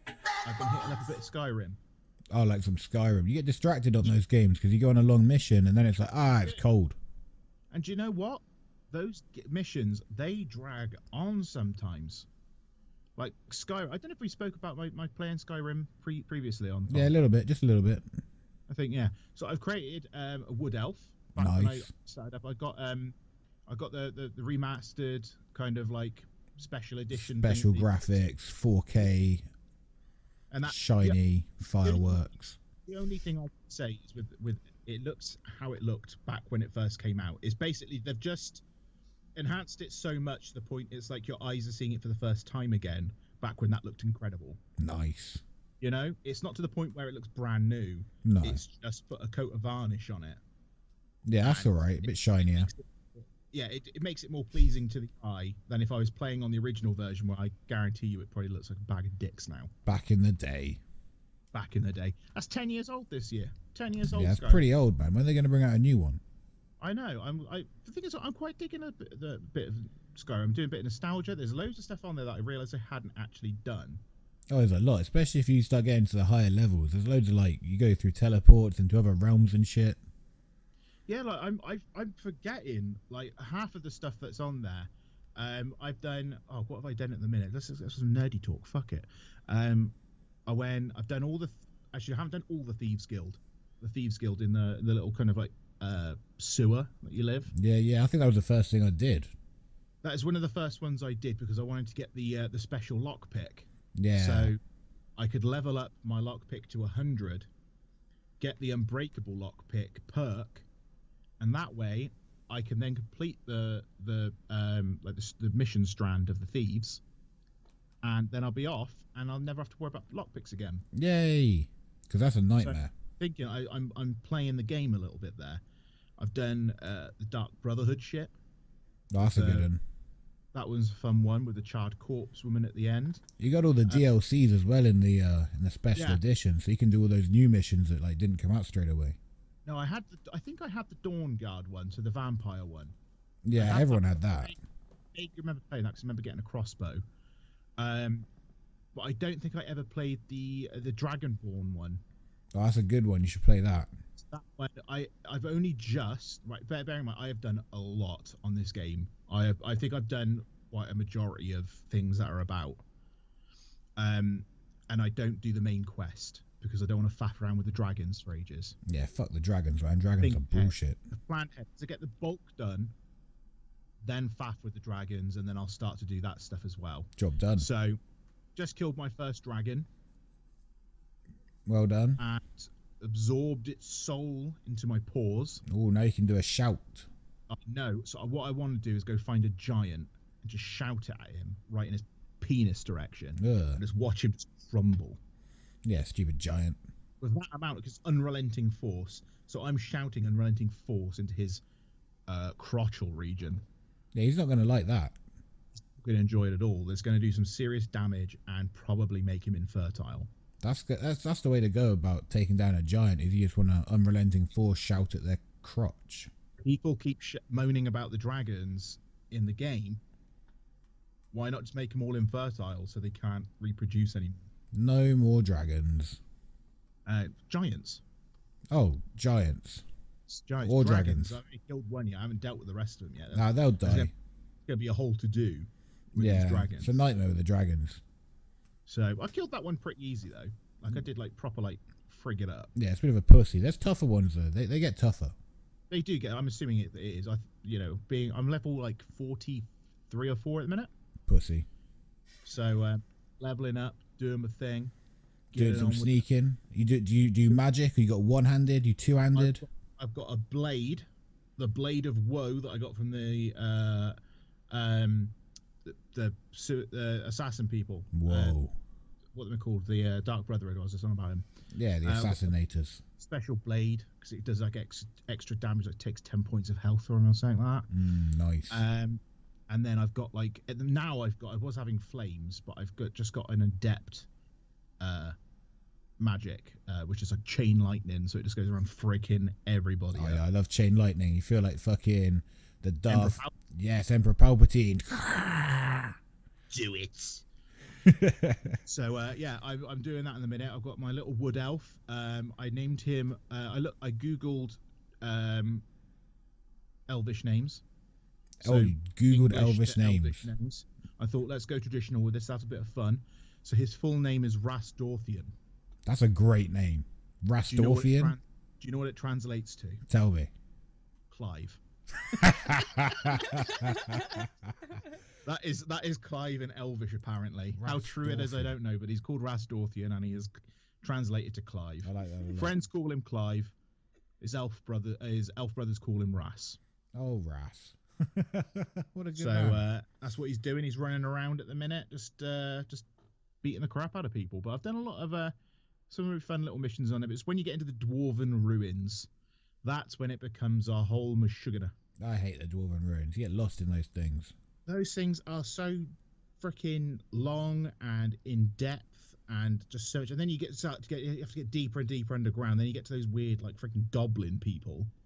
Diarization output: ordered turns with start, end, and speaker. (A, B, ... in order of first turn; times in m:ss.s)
0:00.4-0:01.8 A
0:02.3-0:07.0 B
0:06.1-0:06.6 A
0:07.7-0:12.3 A
0:13.2-0:17.1 A
0:16.9-0:18.0 B
0:18.7-0:23.2 A
0:21.4-0:21.9 B
0:23.7-0:28.2 A
0:27.1-0:29.4 B
0:30.5-0:31.2 A
0:30.6-0:32.6 B
0:31.8-0:32.2 A
0:32.8-0:38.6 A
0:39.4-0:44.6 A
0:44.8-0:45.4 B
0:45.8-0:50.4 A
0:48.2-0:48.6 B
0:51.3-0:52.7 B
0:51.4-0:59.7 A
0:59.9-1:00.8 B
1:01.5-1:04.6 A
1:04.1-1:06.2 B
1:06.8-1:14.0 A
1:14.5-1:20.0 B
1:21.1-1:30.0 A
1:30.5-1:37.5 A
1:37.5-1:39.3 B
1:40.0-1:44.6 A
1:44.0-1:44.5 B
1:45.2-1:47.5 A
1:48.4-1:50.7 A
1:51.4-1:57.0 A
1:58.0-2:00.8 A
2:00.9-2:02.9 B
2:02.6-2:05.6 A
2:06.2-2:08.4 A
2:09.1-2:09.8 B
2:09.2-2:09.7 A
2:10.5-2:13.2 A
2:13.4-2:19.2 B
2:16.0-2:16.2 A
2:19.6-2:23.0 A
2:23.5-2:24.6 B
2:23.6-2:24.6 A
2:25.1-2:27.0 A
2:27.8-2:28.3 A
2:28.9-2:32.0 A
2:32.6-2:33.9 B
2:34.2-2:42.8 A
2:44.0-2:48.8 A
2:48.9-2:51.0 B
2:50.2-2:52.9 A
2:54.0-2:58.0 A
2:57.2-2:57.7 B
2:58.6-2:59.9 A
3:01.7-3:02.2 B
3:02.2-3:05.6 A
3:05.7-3:07.1 B
3:07.5-3:15.2 A
3:13.4-3:13.8 B
3:15.8-3:16.8 B
3:17.2-3:21.6 A
3:22.3-3:23.6 A
3:24.1-3:25.2 B
3:25.8-3:30.3 A
3:30.6-3:36.3 B
3:36.6-3:40.0 A
3:41.3-3:44.5 A
3:44.7-3:46.2 B
3:47.1-3:48.0 A
3:48.7-3:49.8 B
3:50.3-3:54.1 A
3:50.6-3:51.4 B
3:53.3-3:54.1 B
3:54.7-3:57.0 A
3:56.2-3:58.0 B
3:58.9-4:02.7 A
4:02.8-4:05.4 B
4:05.9-4:10.9 A
4:11.3-4:11.7 B
4:12.5-4:14.9 A
4:15.5-4:16.2 A
4:15.5-4:19.6 B
4:19.4-4:21.0 A
4:21.6-4:24.2 A
4:24.7-4:28.6 A
4:28.1-4:28.8 B
4:29.3-4:31.4 A
4:31.7-4:33.0 B
4:32.0-4:32.6 A
4:33.2-4:37.9 A
4:37.9-4:38.8 B
4:38.7-4:44.3 A
4:45.0-4:45.4 A
4:46.2-4:50.4 A
4:50.1-4:56.1 B
4:53.1-4:53.5 A
4:56.7-4:57.4 A
4:58.1-4:58.8 B
4:58.9-5:05.8 A
5:07.1-5:07.8 A
5:08.6-5:10.5 B
5:08.6-5:15.5 A
5:16.1-5:18.4 B
5:17.7-5:20.0 A
5:20.1-5:20.5 B
5:21.3-5:21.8 A
5:22.4-5:24.5 B
5:25.4-5:33.8 A
5:27.8-5:28.8 B
5:32.0-5:32.8 B
5:34.4-5:36.8 A
5:37.2-5:39.8 B
5:39.4-5:43.1 A
5:43.6-5:45.5 A
5:46.1-5:49.3 A
5:49.8-5:51.9 A
5:52.2-5:54.5 B
5:54.9-5:56.1 A
5:56.6-6:05.1 A